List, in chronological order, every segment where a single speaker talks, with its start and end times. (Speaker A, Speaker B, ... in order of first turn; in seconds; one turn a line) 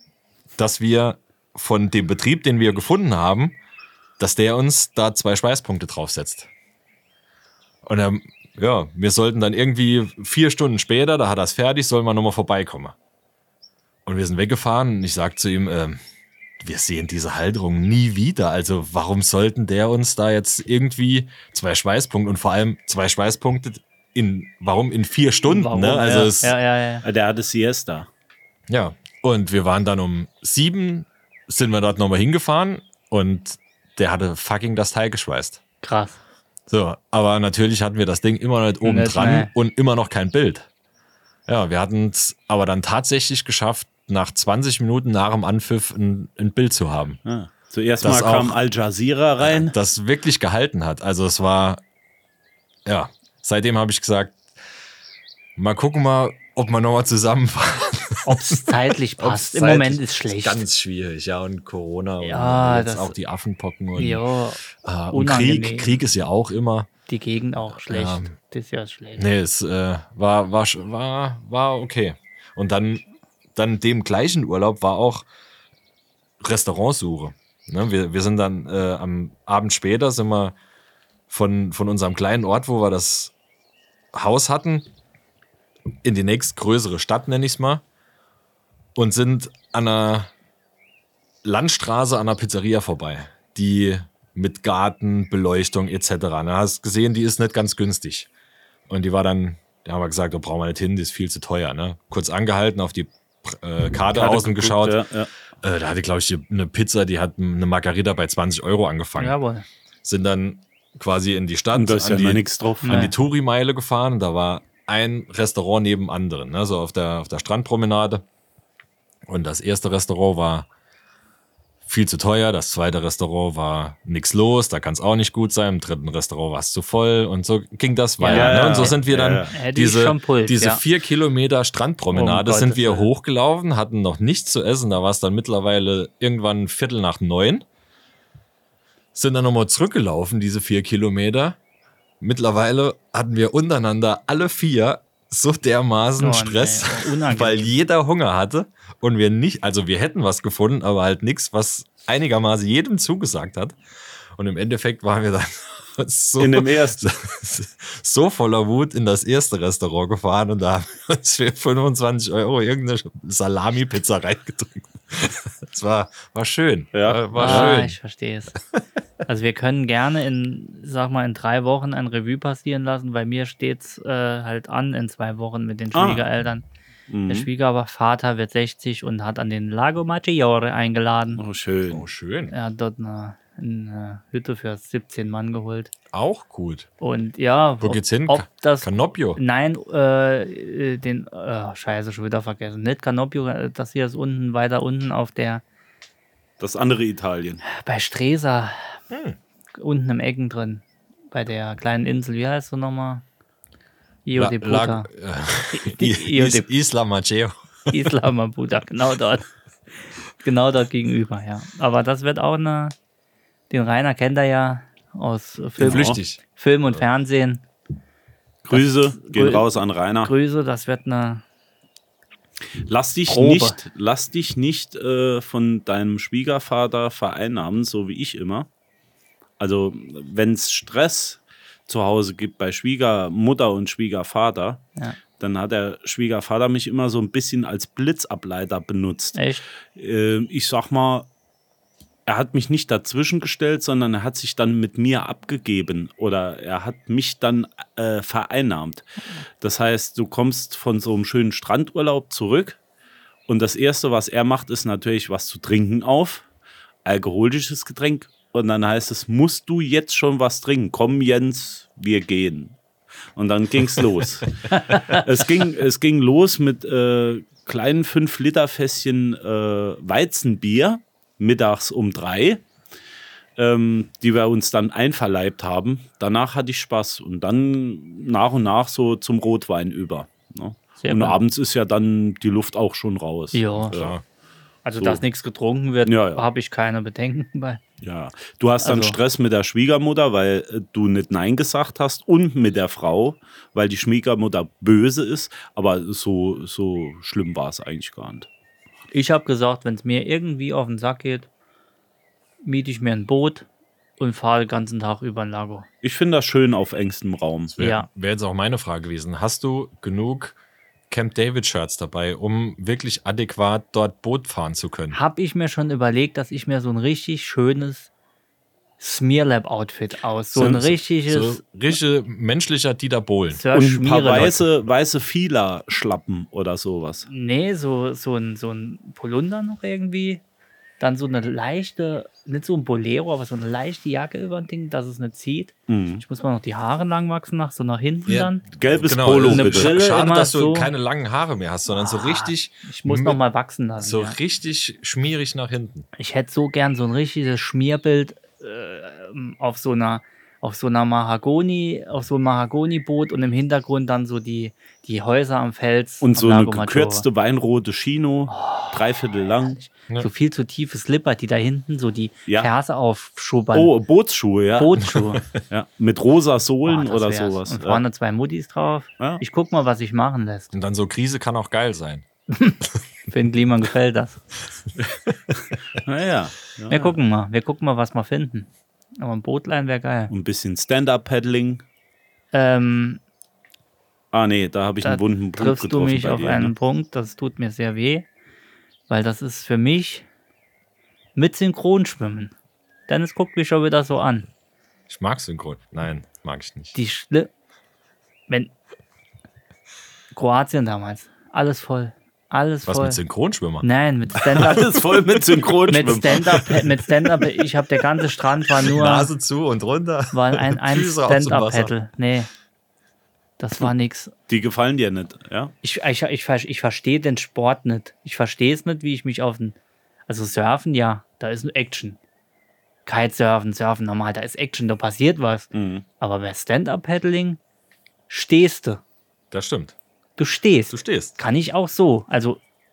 Speaker A: 0.6-3.5
Speaker A: 4.2-6.5
Speaker A: 7.8-12.9
Speaker A: 14.1-16.0
Speaker A: 16.6-26.5
Speaker B: 25.5-27.0
Speaker C: 27.0-28.1
Speaker A: 28.7-35.6
Speaker B: 35.8-36.2
Speaker A: 36.7-40.7
Speaker B: 38.8-39.5
Speaker A: 41.5-47.2
Speaker C: 47.2-49.7
Speaker A: 48.0-48.6
Speaker A: 49.4-51.8
Speaker A: 52.9-54.4
Speaker A: 55.5-66.9
Speaker B: 58.2-60.6
Speaker B: 62.2-63.1
Speaker B: 64.0-66.0
Speaker B: 67.1-69.2
Speaker A: 67.7-68.3
Speaker A: 69.2-73.0
Speaker A: 73.5-75.2
Speaker A: 76.4-80.5
Speaker A: 81.3-83.3
Speaker A: 84.1-84.9
Speaker A: 86.0-87.8
Speaker A: 89.0-90.3
Speaker A: 91.4-98.3
Speaker A: 98.9-105.0
Speaker C: 104.1-105.3
Speaker A: 105.6-109.3
Speaker B: 109.2-109.6
Speaker A: 110.0-118.2
Speaker C: 111.7-113.1
Speaker B: 112.8-113.1
Speaker A: 119.3-120.7
Speaker A: 121.8-137.6
Speaker B: 128.2-129.0
Speaker C: 128.3-129.5
Speaker B: 129.5-130.8
Speaker B: 132.1-133.1
Speaker A: 139.1-141.6
Speaker A: 142.2-153.8
Speaker B: 146.2-147.7
Speaker A: 154.3-167.9
Speaker C: 156.4-157.1
Speaker C: 166.9-167.7
Speaker B: 167.3-168.5
Speaker B: 169.2-176.7
Speaker C: 175.9-176.2
Speaker C: 177.1-177.5
Speaker B: 177.3-181.4
Speaker C: 181.4-182.1
Speaker A: 181.9-182.5
Speaker B: 182.5-185.9
Speaker A: 186.1-186.9
Speaker B: 187.0-195.6
Speaker A: 187.8-189.4
Speaker C: 196.6-197.6
Speaker B: 197.6-198.9
Speaker A: 199.1-199.4
Speaker B: 199.7-203.2
Speaker B: 204.2-205.1
Speaker A: 204.3-208.1
Speaker B: 205.7-206.7
Speaker B: 207.9-209.5
Speaker B: 210.4-212.9
Speaker B: 213.7-217.6
Speaker A: 215.8-216.4
Speaker C: 215.8-216.2
Speaker C: 218.6-220.3
Speaker B: 218.7-219.7
Speaker B: 220.2-221.4
Speaker C: 222.8-228.7
Speaker B: 223.3-223.8
Speaker C: 229.6-234.8
Speaker C: 235.4-239.4
Speaker B: 239.3-239.6
Speaker C: 239.9-241.3
Speaker C: 242.2-249.1
Speaker C: 249.6-252.8
Speaker C: 253.5-256.4
Speaker C: 257.0-262.8
Speaker C: 263.4-272.6
Speaker C: 273.6-284.1
Speaker B: 281.0-281.4
Speaker B: 283.5-284.0
Speaker A: 283.8-284.2
Speaker B: 284.8-287.8
Speaker C: 286.0-286.4
Speaker C: 288.0-298.5
Speaker B: 288.8-289.2
Speaker B: 299.1-301.5
Speaker B: 302.6-303.7
Speaker B: 304.2-305.9
Speaker C: 306.0-307.8
Speaker A: 307.8-310.6
Speaker B: 307.8-308.1
Speaker A: 311.1-315.2
Speaker B: 315.1-318.1
Speaker B: 319.0-321.6
Speaker A: 321.3-323.6
Speaker B: 323.5-324.5
Speaker C: 323.7-327.3
Speaker B: 327.3-330.4
Speaker B: 331.0-338.6
Speaker C: 335.9-336.2
Speaker A: 338.2-343.4
Speaker C: 338.8-339.9
Speaker B: 339.4-340.9
Speaker B: 341.9-344.4
Speaker A: 344.0-346.1
Speaker B: 346.1-357.2
Speaker C: 356.2-359.7
Speaker B: 358.5-363.9
Speaker C: 363.7-365.0
Speaker B: 364.8-365.4
Speaker C: 365.6-368.0
Speaker B: 366.8-370.7
Speaker A: 370.7-372.2
Speaker B: 372.5-374.4
Speaker A: 375.3-375.6
Speaker C: 376.0-377.2
Speaker B: 376.9-380.3
Speaker C: 380.3-381.8
Speaker B: 382.5-383.2
Speaker C: 384.3-386.7
Speaker B: 385.0-388.2
Speaker B: 389.1-390.2
Speaker B: 391.4-392.5
Speaker B: 393.1-394.5
Speaker A: 395.1-396.9
Speaker B: 396.9-397.5
Speaker B: 400.3-403.2
Speaker A: 402.9-403.9
Speaker B: 403.8-405.2
Speaker C: 404.6-406.7
Speaker B: 405.9-409.3
Speaker A: 408.8-411.9
Speaker B: 410.3-412.5
Speaker B: 413.6-414.3
Speaker C: 414.5-415.7
Speaker B: 415.8-419.8
Speaker B: 420.3-422.2
Speaker B: 423.1-427.6
Speaker C: 425.7-426.0
Speaker B: 428.3-429.0
Speaker A: 429.5-429.9
Speaker B: 430.4-432.6
Speaker A: 430.9-431.4